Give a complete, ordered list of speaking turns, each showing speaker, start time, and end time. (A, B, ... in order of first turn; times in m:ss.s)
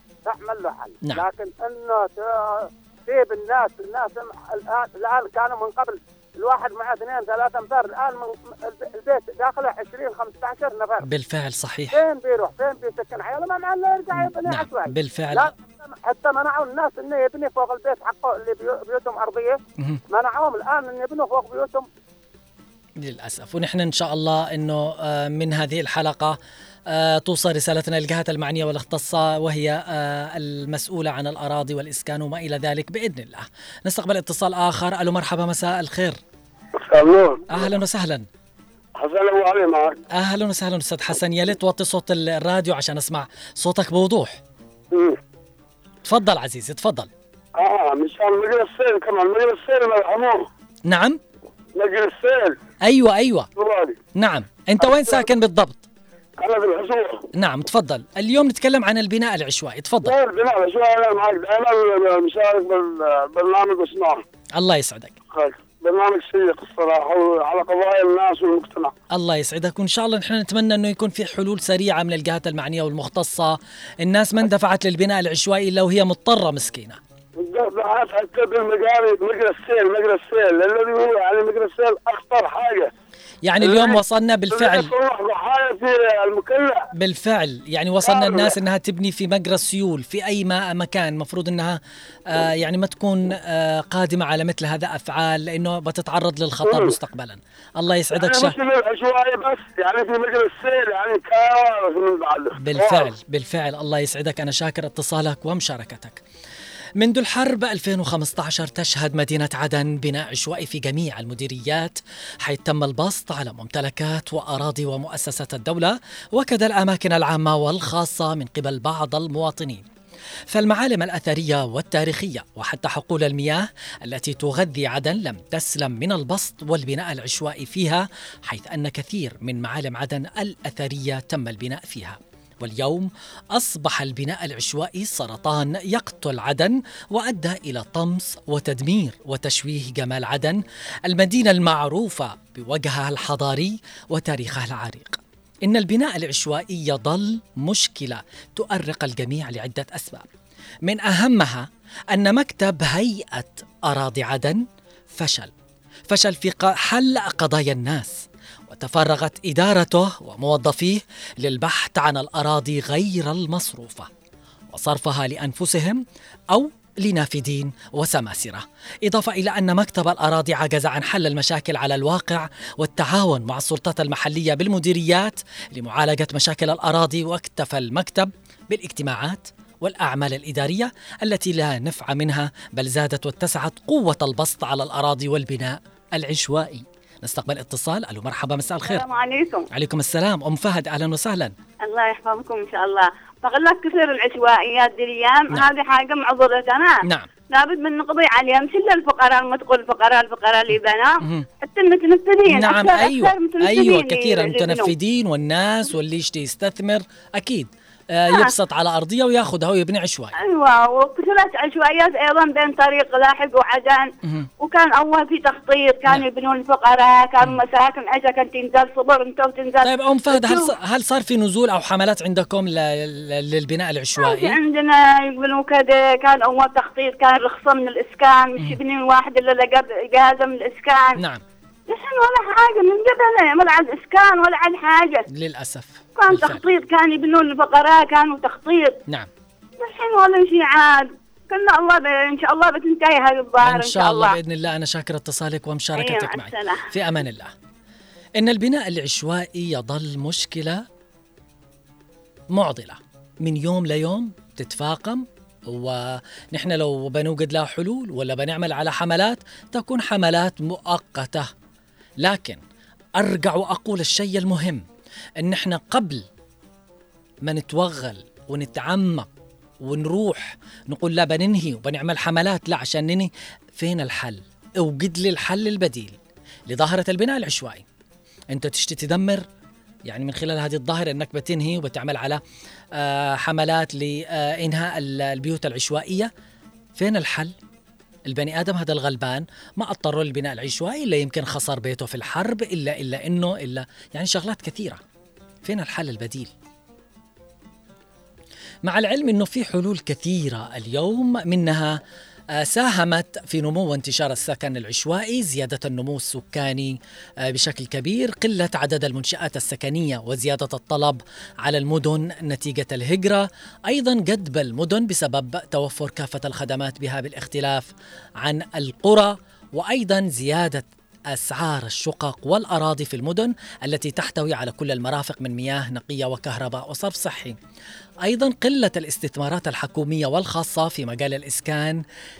0:00.2-0:11.1 A
0:11.0-0:12.0 B
0:11.9-0:19.6 A
0:14.1-0:15.5 B
0:20.1-0:21.8 A
0:23.0-0:26.4 B
0:26.9-0:36.2 B
0:36.8-0:37.7 C
0:37.5-0:38.3 B
0:39.0-0:40.0 C
0:40.1-0:44.4 B
0:44.9-0:45.2 C
0:46.0-0:47.1 B
0:47.6-0:50.5 C
0:50.9-0:51.2 B
0:51.8-0:52.6 C
0:52.9-0:53.5 B
0:53.6-0:54.0 C
0:54.2-0:55.9 B
0:54.8-0:55.2 C
0:56.4-0:57.2 C
0:57.4-1:00.2 B
1:00.0-1:04.2 C
1:04.6-1:05.2 B
1:05.3-1:08.9 C
1:09.1-1:17.0 B
1:17.4-1:22.9 C
1:23.4-1:24.9 B
1:23.6-1:24.0 C
1:24.5-1:26.8 C
1:27.0-1:31.8 B
1:28.0-1:28.5 C
1:32.3-1:38.6 B
1:36.6-1:37.0 C
1:38.2-1:43.1 C
1:42.6-1:46.2 B
1:47.0-1:59.9 B
2:00.5-2:30.3 B
2:30.8-2:35.5 B
2:36.1-2:44.1 B
2:44.7-3:09.0 B
3:08.8-3:09.7 D
3:09.7-3:11.5 B
3:11.8-3:24.9 D
3:17.0-3:17.3 B
3:21.2-3:21.5 B
3:22.5-3:30.3 B
3:30.4-3:34.1 D
3:34.2-3:34.5 B
3:34.6-3:40.7 D
3:39.8-3:44.6 B
3:44.2-3:51.2 D
3:51.2-3:51.4 B
3:51.9-3:55.3 D
3:55.3-3:56.6 B
3:56.2-3:59.0 D
3:59.8-4:04.4 D
4:03.6-4:07.5 B
4:06.0-4:06.9 D
4:08.4-4:10.8 B
4:12.5-4:21.5 B
4:22.2-4:22.6 B
4:23.2-4:24.8 B
4:25.4-4:26.2 B
4:27.4-4:29.3 B
4:29.8-4:36.2 B
4:36.7-4:37.8 B
4:38.5-4:39.4 B
4:40.1-4:42.4 B
4:43.0-4:46.3 B
4:47.0-4:47.5 B
4:48.3-4:55.0 B
4:55.6-4:56.5 B
4:58.8-5:02.0 B
5:02.6-5:07.0 B
5:07.5-5:17.9 B
5:18.4-5:27.6 B
5:28.2-5:32.0 B